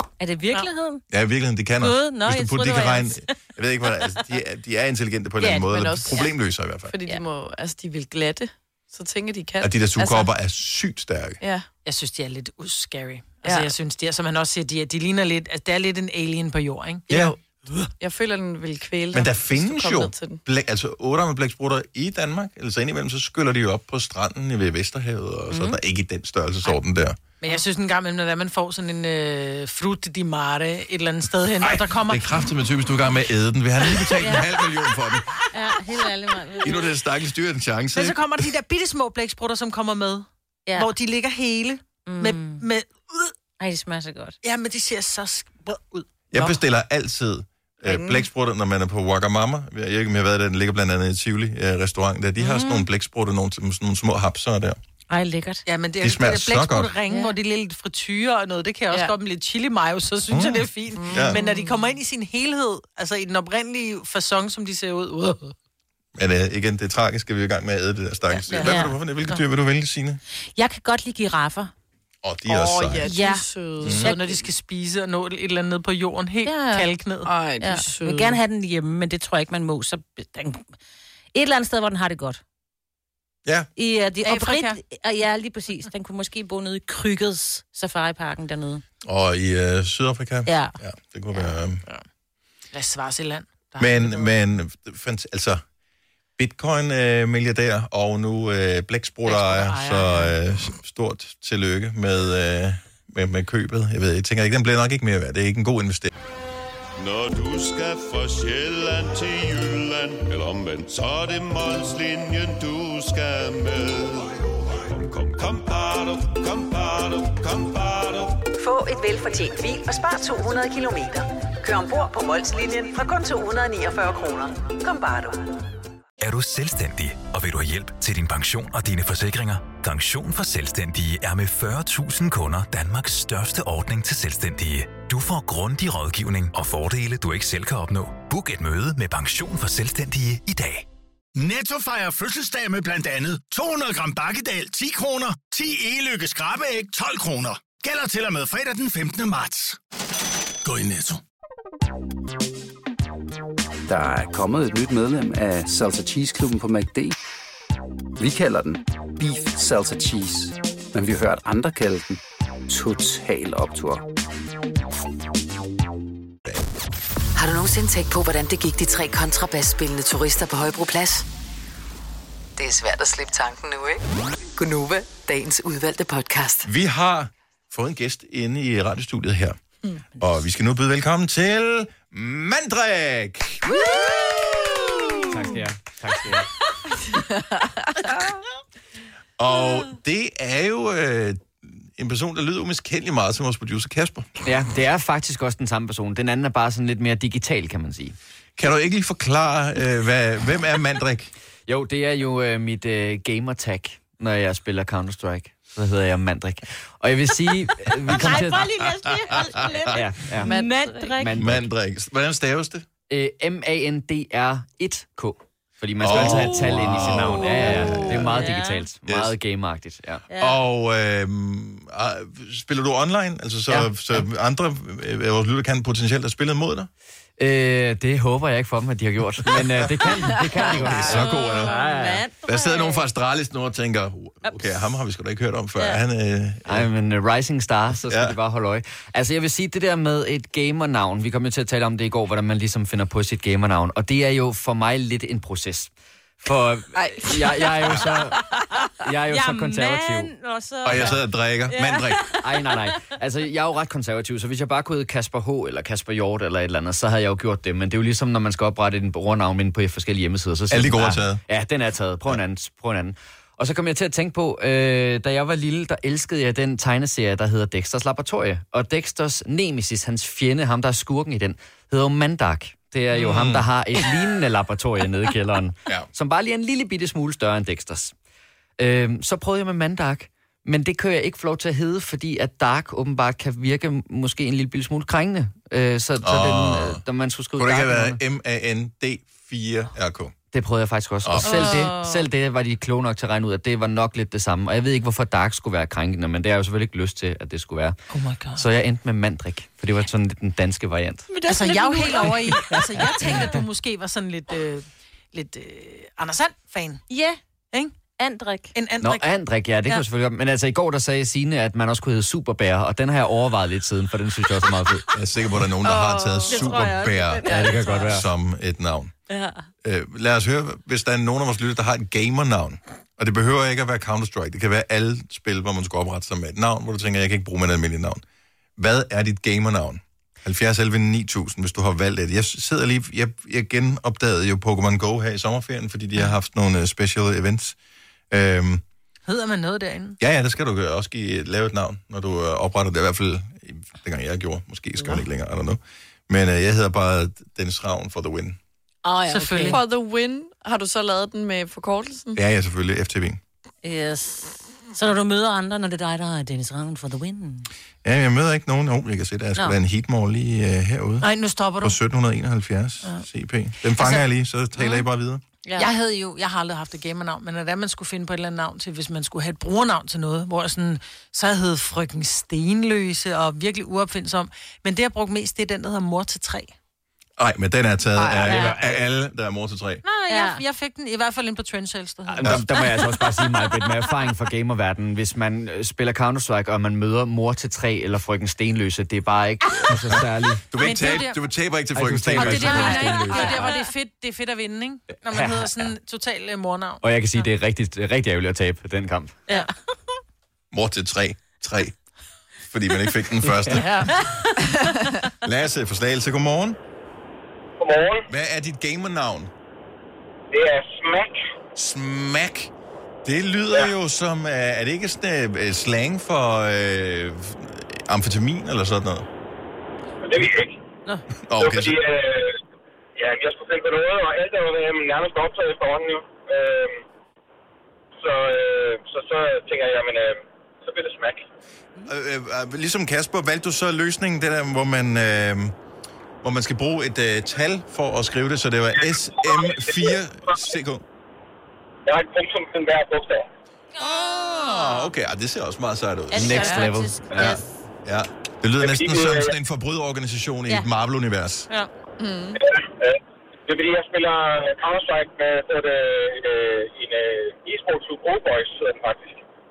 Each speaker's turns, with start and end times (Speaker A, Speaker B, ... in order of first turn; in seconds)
Speaker A: 0.2-1.0, 1.8-3.3, 5.4-6.3, 25.5-25.8, 34.2-34.5, 35.5-36.9, 42.0-42.6, 43.6-44.4, 52.4-52.9, 55.1-55.6, 57.1-57.4, 61.3-61.8, 68.5-69.0, 70.6-71.7, 73.0-74.2, 76.4-76.9, 77.6-80.7, 81.3-82.4, 83.8-88.8, 90.5-90.8, 208.1-211.3, 218.2-218.9, 220.3-220.6, 231.0-233.1, 234.4-234.7, 235.8-236.0, 248.7-252.7, 291.5-291.9, 298.1-298.6, 301.3-303.6, 307.1-307.4, 308.2-308.7, 316.5-318.2, 319.3-319.6, 349.1-349.8, 353.8-357.7, 364.8-365.1, 365.6-365.9, 380.2-380.6, 392.6-393.8, 399.5-399.7, 404.1-404.4, 446.3-447.6
Speaker B: 1.1-6.9, 9.6-11.4, 17.1-17.3, 19.1-27.2, 31.6-35.3, 36.6-38.2, 46.3-54.8, 56.0-56.9, 60.3-61.4, 66.2-70.2, 72.2-73.1, 73.8-74.1, 89.0-91.8, 93.8-95.6, 96.4-106.1, 176.7-179.6, 180.2-183.7, 184.2-185.0, 189.4-194.3, 198.6-201.3, 208.9-209.9, 211.4-212.8, 216.0-218.3, 219.1-219.4, 220.4-226.9, 229.6-229.8, 230.7-231.7, 232.4-236.9, 238.1-238.3, 250.8-252.2, 260.7-261.4, 273.1-273.7, 286.2-287.0, 287.6-290.3, 291.2-291.9, 315.1-319.1, 319.8-328.2, 328.8-337.8, 338.3-338.8, 340.2-348.6, 352.4-353.4, 358.0-361.3, 361.8-365.4, 377.4-380.0, 390.1-393.6, 400.7-402.0, 402.7-404.0, 405.4-406.8, 408.3-409.5, 411.8-412.7, 413.2-419.3, 421.5-422.0, 432.1-435.8, 436.4-441.0, 444.0-451.7
Speaker C: 5.6-6.3, 6.8-10.3, 11.4-11.7, 13.4-13.7, 17.1-17.4, 18.0-20.4, 47.9-48.3, 61.0-61.3, 72.5-74.5, 77.2-78.4, 183.8-185.1, 187.0-188.4, 210.4-211.2, 216.1-218.5, 230.7-231.3, 246.9-248.1, 291.4-292.2, 315.8-318.0, 349.6-352.4, 378.2-378.8, 446.4-446.9, 452.2-452.6
Speaker D: 11.9-17.1, 27.4-32.5, 37.9-43.3, 44.4-46.5, 55.7-65.5, 68.4-69.4, 73.9-77.3, 84.2-84.8, 92.7-94.3, 99.3-100.4, 301.5-307.0, 308.7-309.3, 339.3-340.2, 349.3-349.8, 361.2-362.0, 365.8-376.8, 380.1-383.2, 390.8-391.4, 392.4-397.5
Speaker E: 107.0-118.4
Speaker F: 118.6-125.4, 167.4-171.2, 172.6-174.0, 174.6-176.7
Speaker G: 126.2-140.8
Speaker H: 141.4-149.8, 150.6-151.2
Speaker I: 153.9-157.2, 158.2-164.0
Speaker J: 185.3-186.5, 194.4-198.2, 201.7-208.7, 209.9-211.7, 213.1-220.2, 223.7-224.2, 227.4-232.2, 236.7-248.4, 249.0-250.3, 252.4-278.1, 278.8-288.2, 290.5-298.0, 298.5-301.3, 309.0-315.1, 317.5-318.2, 378.5-378.8, 382.3-390.6, 391.9-393.7, 395.3-395.9, 397.0-399.4
Speaker K: 407.8-408.2, 410.5-411.4, 420.2-420.7, 421.6-422.6, 423.2-427.0, 428.2-431.4, 439.4-440.1, 442.1-443.5, 448.8-449.5, 453.0-459.4